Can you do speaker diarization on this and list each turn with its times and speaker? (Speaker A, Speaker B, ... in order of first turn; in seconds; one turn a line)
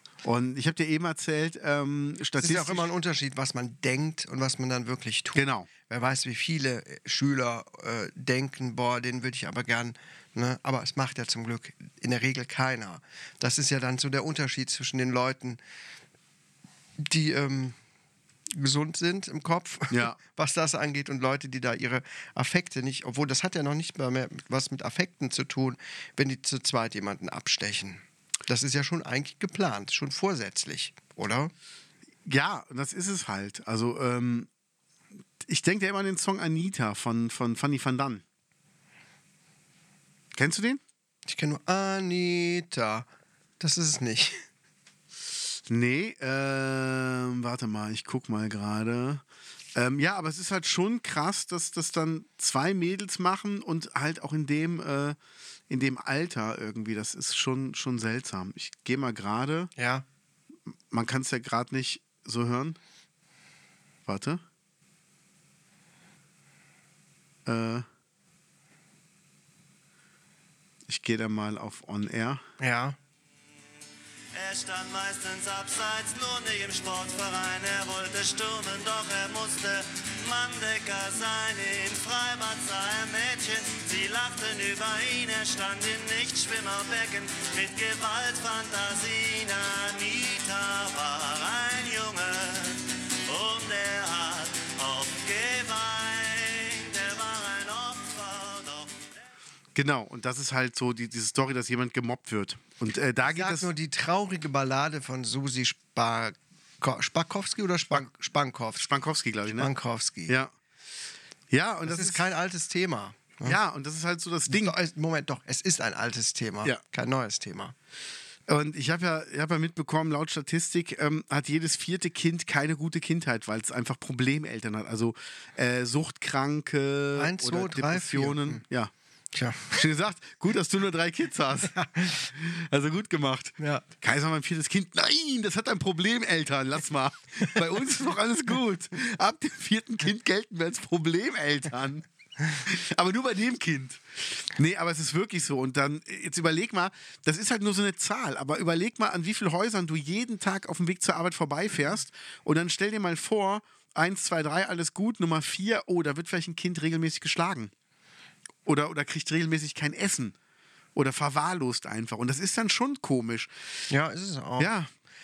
Speaker A: 0.2-2.9
Speaker B: 2.4-15.6
Speaker A: 5.3-5.7
Speaker B: 17.0-17.8
Speaker B: 18.5-31.5
Speaker A: 19.9-20.2
Speaker A: 32.2-34.5
Speaker A: 35.4-38.2
Speaker A: 40.3-40.8
Speaker B: 41.2-43.1
Speaker B: 43.6-44.4
Speaker A: 45.7-49.2
Speaker A: 49.7-55.2
Speaker A: 55.7-59.7
Speaker B: 59.8-60.0
Speaker A: 60.9-62.8
Speaker A: 64.0-64.4
Speaker A: 67.5-67.8
Speaker A: 70.9-72.4
Speaker B: 72.6-73.0
Speaker C: 74.3-99.1
Speaker A: 99.7-103.7
Speaker B: 103.2-108.9
Speaker A: 108.8-109.7
Speaker B: 109.5-110.3
Speaker A: 110.3-110.5
Speaker A: 111.5-112.2
Speaker B: 111.8-113.6
Speaker A: 113.4-114.7
Speaker B: 114.5-117.7
Speaker A: 118.5-128.9
Speaker B: 127.1-128.6
Speaker B: 129.3-129.8
Speaker A: 129.7-131.7
Speaker B: 131.7-132.3
Speaker A: 132.3-157.7
Speaker B: 133.6-133.8
Speaker A: 158.6-160.3
Speaker A: 160.9-163.5
Speaker B: 163.9-164.7
Speaker A: 164.6-164.9